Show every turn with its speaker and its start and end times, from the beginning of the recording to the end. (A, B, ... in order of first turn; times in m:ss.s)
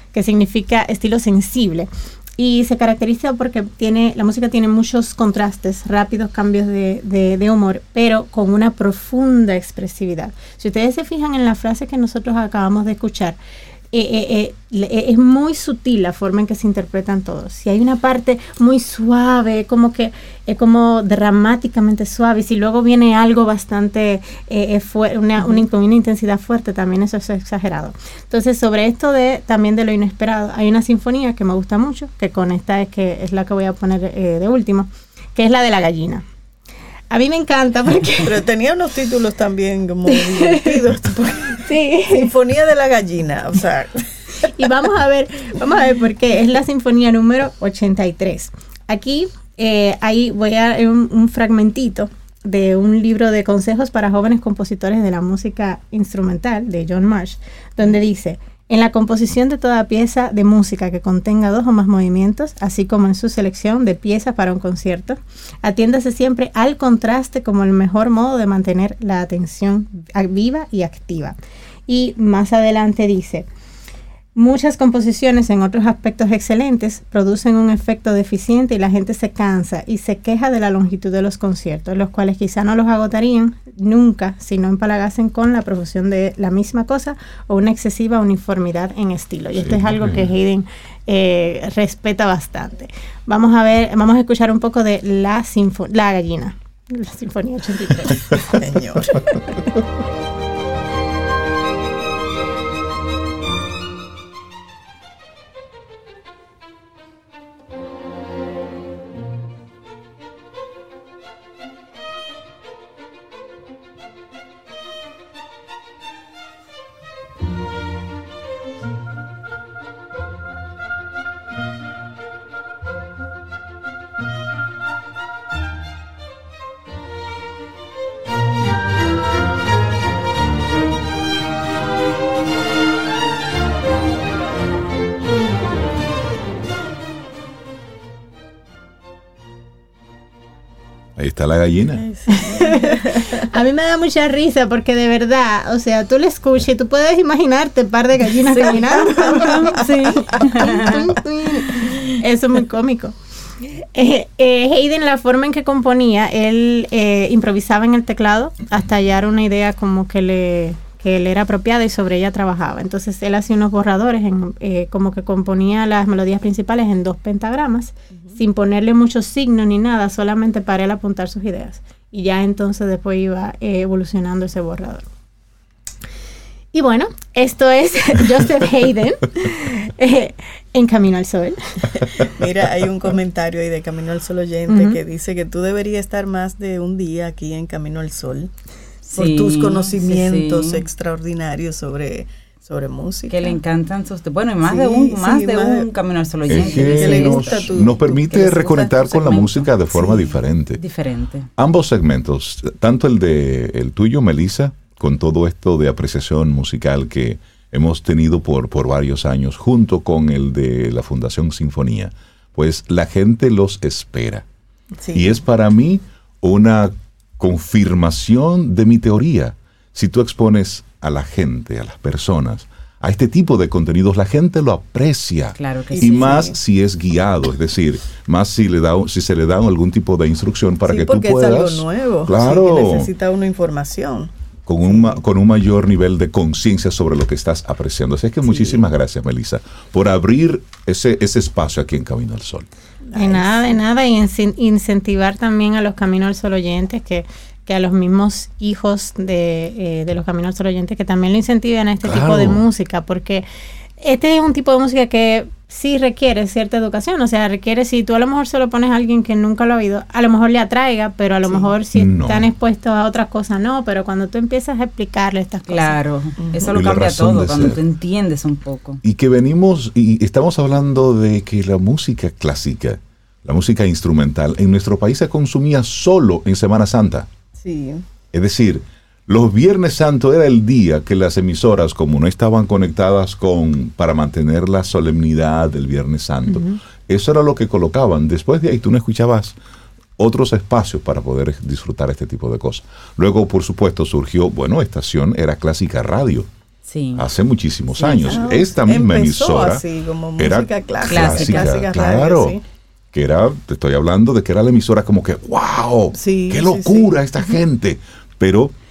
0:00.1-0:13.4 A
0:13.9-0:36.2 A
0:37.1-0:38.4 A
0:38.2-0:44.0 B
0:40.1-0:40.8 A
0:41.7-0:42.3 A
0:44.5-1:11.4 A
1:11.9-1:13.5 A
1:14.4-1:38.6 A
1:29.6-1:30.3 C
1:38.4-1:39.3 B
2:21.2-2:22.1 C
2:21.9-2:23.5 B
2:22.6-2:33.1 A
2:28.5-2:31.0 D
2:28.6-2:30.9 B
2:34.0-2:55.0 A
2:56.7-3:01.6 A
3:02.2-3:08.5 B
3:04.7-3:05.0 A
3:09.0-3:10.8 D
3:09.1-3:13.6 B
3:13.3-3:19.7 D
3:14.6-3:15.9 B
3:16.5-3:18.3 B
3:16.5-3:20.8 C
3:20.8-3:21.5 D
3:21.6-3:34.5 C
3:35.0-3:35.4 B
3:35.2-3:53.1 C
3:45.6-3:46.4 D
3:45.9-3:46.6 B
3:50.9-3:54.3 B
3:54.7-4:02.7 C
3:54.8-3:55.2 B
3:58.5-3:58.8 B
4:03.1-4:03.8 B
4:03.2-4:13.5 A
4:12.0-4:12.6 C
4:14.0-4:26.0 A
4:21.5-4:21.7 B
4:21.9-4:22.5 C
4:25.7-4:29.0 D
4:26.4-4:26.7 B
4:26.7-4:27.8 C
4:29.0-4:37.3 C
4:37.6-4:38.0 B
4:38.3-4:49.6 C
4:46.5-4:46.8 B
4:50.2-4:56.5 C
4:56.9-4:57.2 D
4:57.2-4:59.8 C
4:58.0-5:02.6 B
4:58.1-4:58.4 D
5:00.4-5:02.6 C
5:01.0-5:01.7 D
5:03.1-5:08.7 C
5:06.2-5:07.5 B